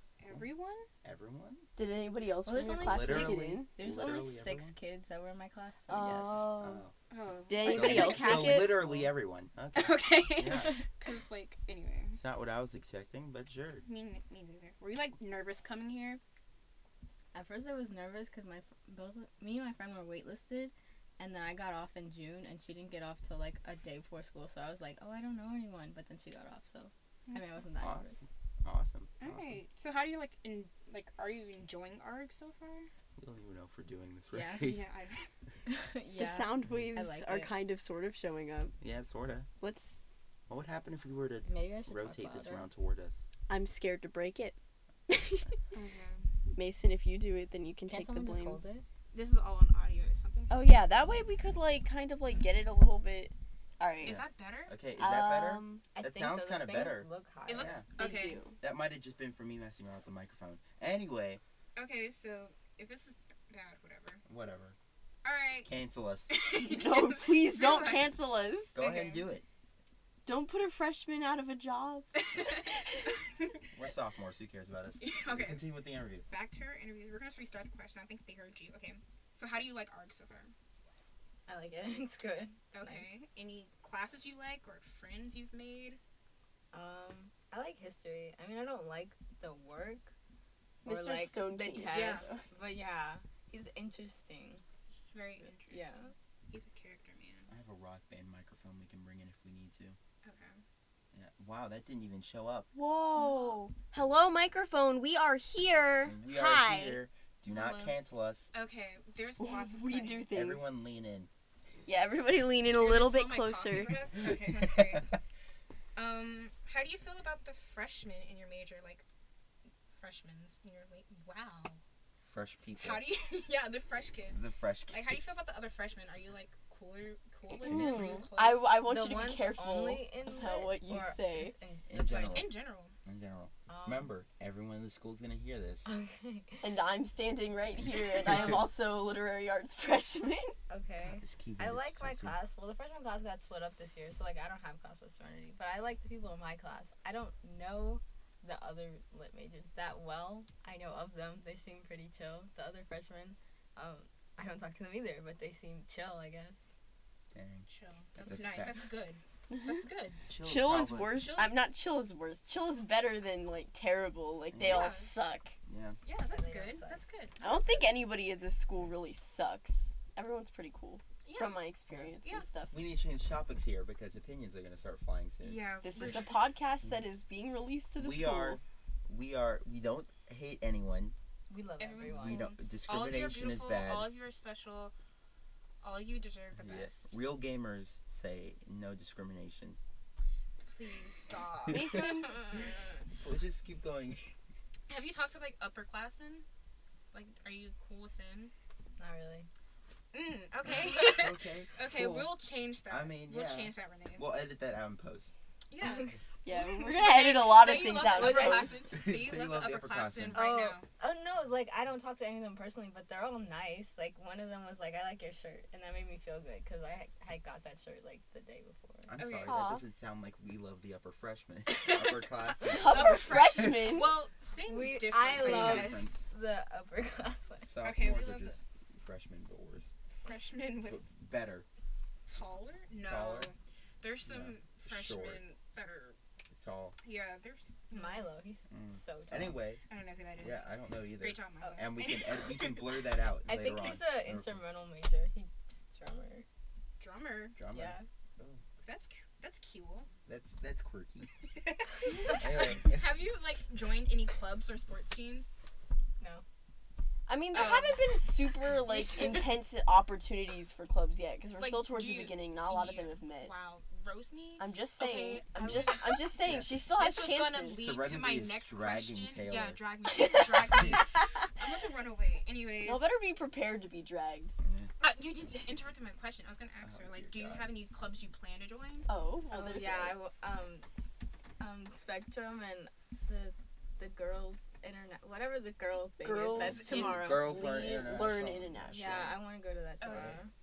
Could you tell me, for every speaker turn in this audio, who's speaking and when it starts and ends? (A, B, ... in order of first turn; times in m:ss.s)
0:00.2-0:00.8 A
0:01.0-0:01.7 B
0:01.8-0:03.7 C
0:02.4-0:06.6 D
0:02.8-0:04.8 B
0:05.9-0:06.8 C
0:06.6-0:06.9 B
0:07.1-0:08.9 A
0:07.5-0:08.8 C
0:07.6-0:10.8 B
0:09.8-0:12.2 A
0:12.2-0:13.8 B
0:13.8-0:16.2 A
0:17.3-0:28.2 D
0:27.8-0:29.6 B
0:29.2-0:32.9 A
0:33.2-0:34.8 B
0:34.3-0:34.8 D
0:34.6-0:35.3 A
0:35.7-0:37.5 D
0:36.2-0:38.8 C
0:38.8-0:39.5 B
0:39.6-0:40.1 C
0:40.5-0:43.2 B
0:41.5-0:42.7 D
0:43.5-0:44.6 C
0:45.1-0:45.6 C
0:45.7-0:46.3 A
0:46.5-0:48.6 C
0:47.9-0:48.8 D
0:49.1-0:50.8 A
0:50.5-0:54.2 C
0:54.0-0:54.7 A
0:54.0-0:57.9 B
0:55.0-0:55.8 C
0:56.0-0:57.8 D
0:57.5-0:58.4 A
0:58.0-0:58.6 C
0:58.6-1:01.4 B
1:01.8-1:04.2 A
1:04.3-1:04.8 B
1:05.2-1:05.7 A
1:05.6-1:06.3 B
1:06.3-1:08.2 A
1:06.5-1:08.8 C
1:08.8-1:09.4 B
1:08.8-1:09.3 A
1:10.2-1:12.7 C
1:12.3-1:12.6 A
1:13.7-1:16.3 B
1:15.0-1:15.7 A
1:16.3-1:20.5 A
1:21.5-1:23.1 D
1:22.7-1:26.0 A
1:26.7-1:30.1 D
1:30.8-1:32.4 C
1:30.8-1:34.6 D
1:31.8-1:32.3 A
1:35.1-1:35.9 A
1:35.7-1:36.1 D
1:36.5-1:37.5 A
1:37.5-1:40.0 B
1:40.2-1:40.6 A
1:41.1-1:42.7 B
1:42.7-1:47.0 C
1:43.2-1:43.5 A
1:46.0-1:48.5 B
1:47.5-1:48.0 A
1:48.5-1:50.3 A
1:49.4-1:50.7 C
1:50.3-1:51.3 B
1:51.9-1:54.1 C
1:52.8-1:55.2 A
1:54.2-1:55.1 B
1:56.0-1:59.0 A
1:59.9-2:01.8 A
2:02.2-2:03.0 B
2:02.8-2:08.8 A
2:04.3-2:05.2 B
2:07.5-2:11.6 C
2:07.7-2:08.2 B
2:08.8-2:12.4 D
2:11.9-2:15.9 B
2:11.9-2:12.9 A
2:13.7-2:14.1 D
2:15.9-2:16.7 D
2:16.6-2:20.6 C
2:18.3-2:18.6 B
2:20.7-2:36.7 D
2:21.0-2:22.4 B
2:37.3-2:38.8 B
2:37.7-2:40.2 A
2:40.2-2:41.3 B
2:40.4-2:45.6 C
2:41.1-2:41.7 A
2:44.5-2:45.0 B
2:44.6-2:45.2 A
2:45.7-2:46.0 B
2:46.0-2:47.8 A
2:46.2-2:47.0 D
2:47.4-2:52.8 C
2:51.2-2:52.5 A
2:52.7-2:56.3 B
2:55.4-2:56.4 A
2:55.8-2:58.6 C
2:58.0-3:01.2 B
3:01.5-3:02.6 D
3:01.8-3:04.9 A
3:02.1-3:04.1 B
3:05.8-3:07.1 A
3:06.6-3:09.8 B
3:10.6-3:13.0 A
3:11.3-3:12.1 B
3:11.7-3:12.4 C
3:13.2-3:14.3 B
3:14.9-3:16.4 A
3:17.1-3:18.5 A
3:19.0-3:19.5 D
3:20.1-3:24.3 A
3:20.8-3:21.2 D
3:20.9-3:22.3 B
3:22.9-3:25.3 B
3:25.7-3:30.9 A
3:25.8-3:26.1 D
3:26.5-3:28.9 C
3:28.2-3:28.7 D
3:28.9-3:30.4 B
3:30.3-3:39.2 D
3:39.1-3:43.9 B
3:39.2-3:39.5 A
3:39.4-3:39.9 C
3:42.6-3:44.1 C
3:42.6-3:46.1 A
3:44.6-3:47.7 D
3:45.2-3:46.2 B
3:47.6-3:49.9 B
3:47.8-3:48.6 A
3:50.2-3:51.0 A
3:50.8-3:51.7 B
3:52.3-3:56.2 A
3:53.0-3:53.5 B
3:54.3-3:55.4 B
3:56.5-3:57.0 B
3:57.0-3:58.3 A
3:57.9-3:59.6 D
3:58.7-3:59.8 B
3:59.8-4:00.7 A
4:00.4-4:04.6 B
4:01.2-4:02.9 A
4:01.6-4:01.9 D
4:03.5-4:06.4 D
4:07.0-4:07.6 A
4:07.6-4:08.6 B
4:07.7-4:08.0 D
4:08.8-4:10.1 A
4:10.3-4:11.3 B
4:11.5-4:15.5 A
4:12.1-4:12.4 D
4:12.3-4:13.2 B
4:17.3-4:23.5 C
4:17.5-4:19.5 A
4:21.6-4:33.1 A
4:24.6-4:27.9 C
4:25.6-4:26.8 B
4:27.8-4:29.8 B
4:30.1-4:31.2 C
4:32.8-4:34.6 C
4:34.6-4:34.9 B
4:35.0-4:39.1 A
4:36.8-4:37.8 B
4:39.1-4:40.2 C
4:39.5-4:40.8 D
4:41.6-4:48.2 D
4:46.2-4:49.2 C
4:46.5-4:47.2 A
4:46.9-4:49.4 B
4:48.9-4:50.5 D
4:50.0-4:50.4 A
4:50.1-4:50.4 B